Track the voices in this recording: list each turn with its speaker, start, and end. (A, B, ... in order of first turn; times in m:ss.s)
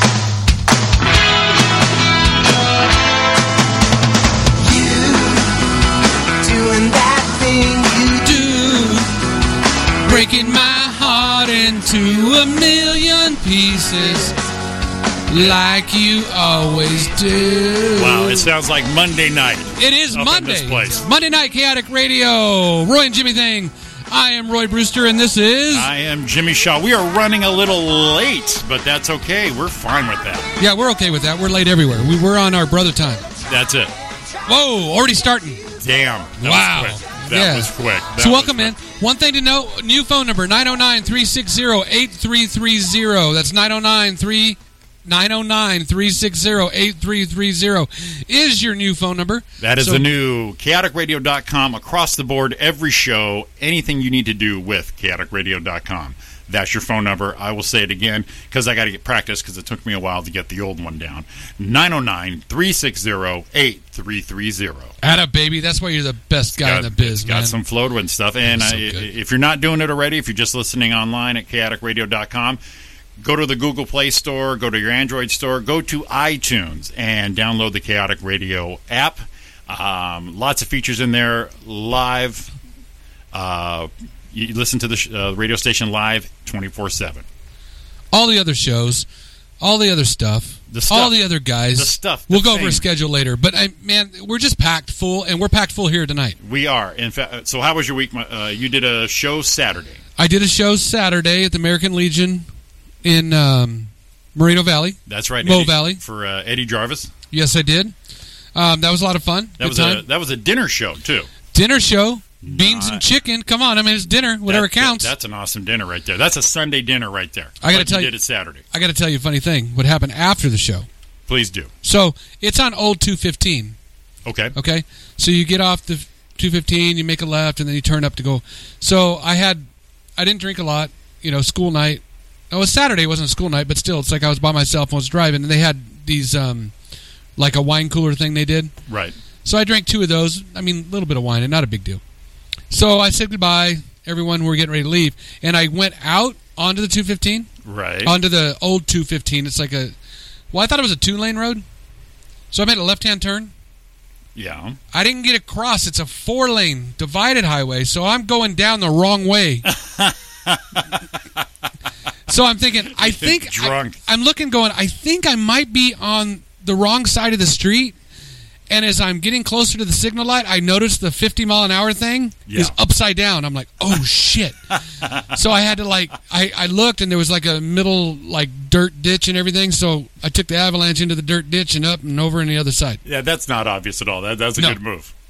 0:04.6-0:05.6 A
0:06.4-0:08.5 A
0:08.2-0:09.0 B
0:10.0-0:14.4 B
0:15.3-0:18.4 B
0:18.0-0:21.0 C
0:19.8-0:25.9 B
0:25.7-0:30.5 C
0:30.6-0:33.2 B
0:33.5-0:33.9 C
0:34.4-0:35.6 B
0:35.8-0:38.7 C
0:36.4-0:50.1 B
0:49.6-1:04.9 C
1:05.0-1:07.6 B
1:06.6-1:12.6 C
1:08.5-1:09.0 B
1:13.2-1:22.5 C
1:23.3-1:27.2 C
1:28.1-1:29.0 B
1:29.6-1:36.4 B
1:30.7-1:32.8 C
1:36.4-1:40.0 C
1:40.2-1:42.4 B
1:43.0-1:46.0 B
1:45.1-1:47.1 C
1:47.3-1:47.9 B
1:48.5-1:50.0 B
1:49.6-1:51.3 C
1:51.5-1:55.1 B
1:52.4-1:53.0 C
1:54.5-1:58.6 C
1:57.6-2:00.9 B
2:01.3-2:01.7 C
2:01.8-2:03.8 B
2:04.2-2:04.5 C
2:04.5-2:09.6 B
2:10.2-2:16.7 B
2:17.4-2:18.7 B
2:18.9-2:19.1 C
2:19.4-2:22.0 B
2:22.7-2:27.5 B
2:27.6-2:28.1 C
2:28.0-2:29.9 B
2:30.5-2:31.6 B
2:32.5-2:33.5 B
2:34.3-2:34.8 C
2:34.9-2:39.7 B
2:39.9-2:40.9 C
2:42.3-2:48.0 B
2:43.0-2:44.0 C
2:48.7-2:54.6 B
2:52.5-2:52.7 C
2:55.3-3:03.0 B
3:03.0-3:05.1 C